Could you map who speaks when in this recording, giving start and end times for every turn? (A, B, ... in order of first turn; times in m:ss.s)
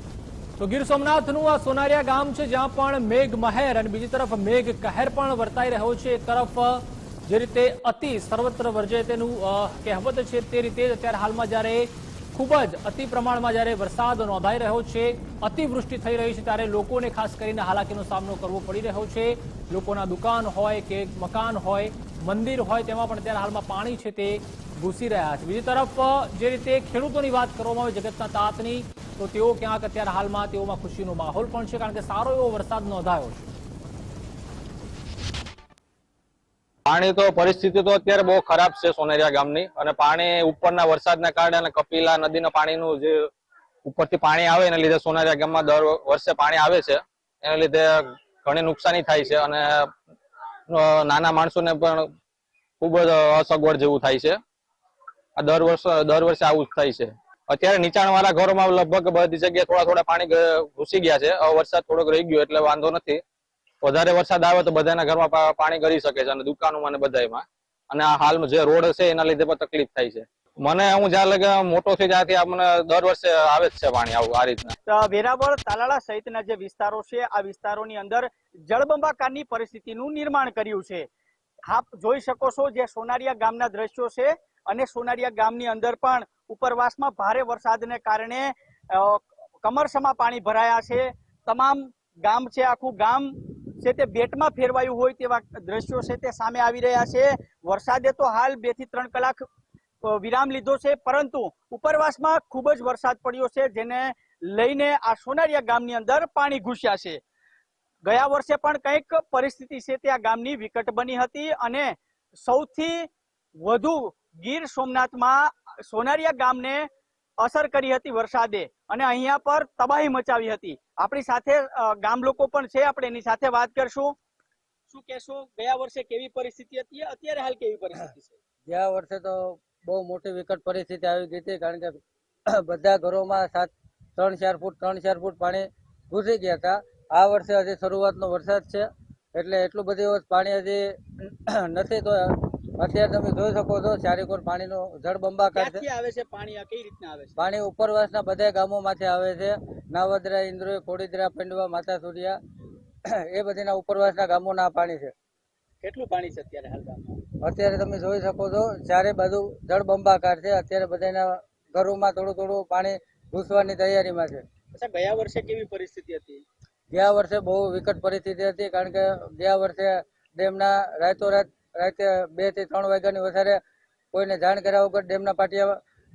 0:00.6-0:33.5 A
0:36.9-0:43.3 B
0:43.8-0:49.9 B
0:50.7-0:52.1 B
0:52.8-0:54.4 B
0:55.4-1:03.2 B
1:03.8-1:14.8 B
1:14.9-1:21.1 C
1:21.7-1:39.4 C
1:40.0-1:47.2 C
1:48.1-1:51.9 C
1:52.4-1:53.1 C
1:53.6-1:56.9 C
1:57.4-2:04.1 C
2:04.9-2:08.4 C
2:08.7-2:12.0 D
2:12.5-2:25.8 D
2:25.6-2:27.3 C
2:27.4-2:32.4 D
2:33.2-2:35.1 D
2:35.8-2:37.2 C
2:37.4-2:44.4 D
2:44.7-2:46.4 C
2:46.9-2:53.6 D
2:54.1-2:55.8 D